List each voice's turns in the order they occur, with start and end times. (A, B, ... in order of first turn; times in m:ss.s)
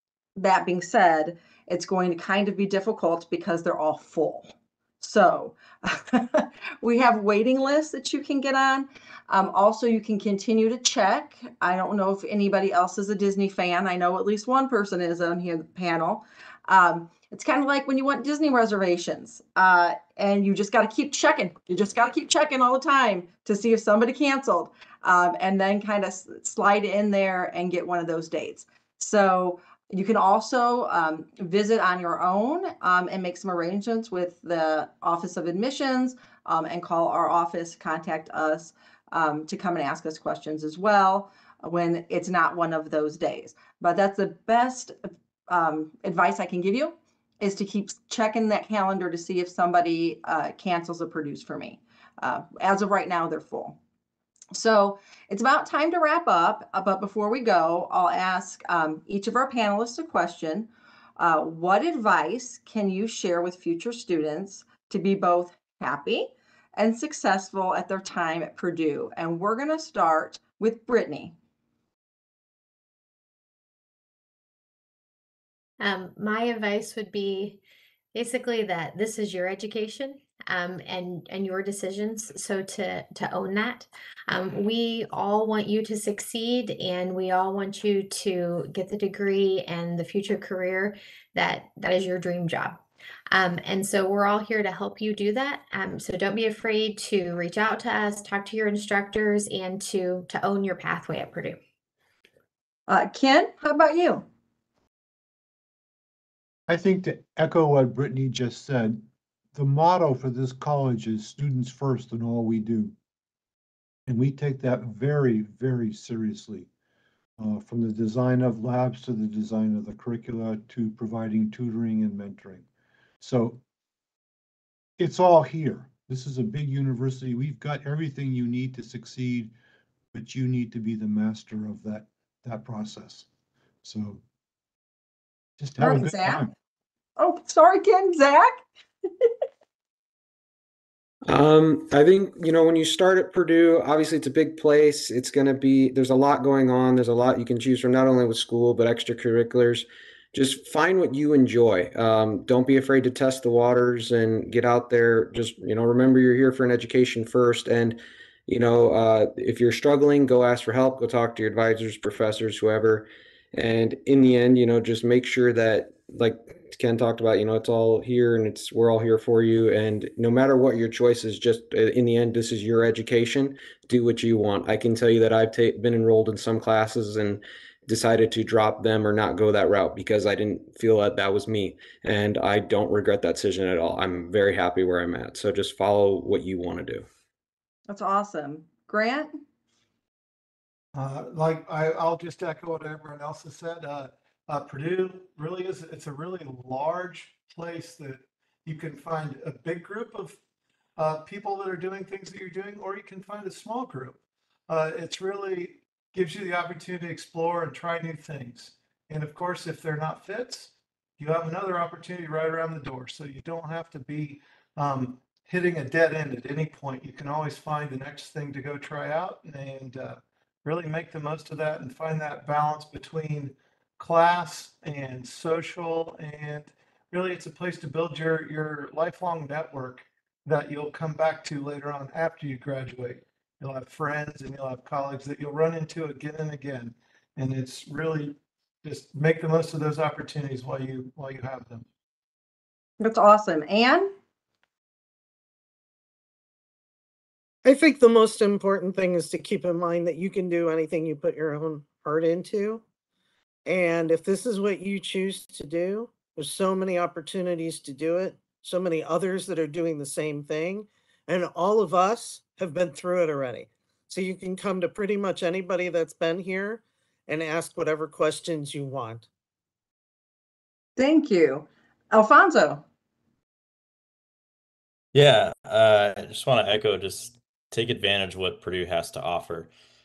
0:00.4-0:53.8 A
0:54.5-1:11.3 A
1:15.8-1:17.6 B
1:18.1-1:32.8 B
1:33.3-1:41.6 B
1:42.9-1:44.2 A
1:46.7-1:49.0 C
1:49.5-1:52.9 C
1:54.1-1:56.7 C
1:57.4-2:02.6 C
2:03.2-2:03.6 C
2:05.0-2:09.5 C
2:10.1-2:13.3 C
2:13.8-2:14.2 C
2:15.6-2:16.5 C
2:15.8-2:16.5 A
2:17.2-2:18.6 A
2:21.3-3:07.0 D
3:07.9-3:09.3 A
3:10.9-3:20.4 E
3:21.0-4:01.8 E
4:03.0-4:04.1 A
4:07.6-4:12.8 F
4:13.7-4:29.3 F
4:31.0-4:32.8 A
4:35.1-4:39.7 G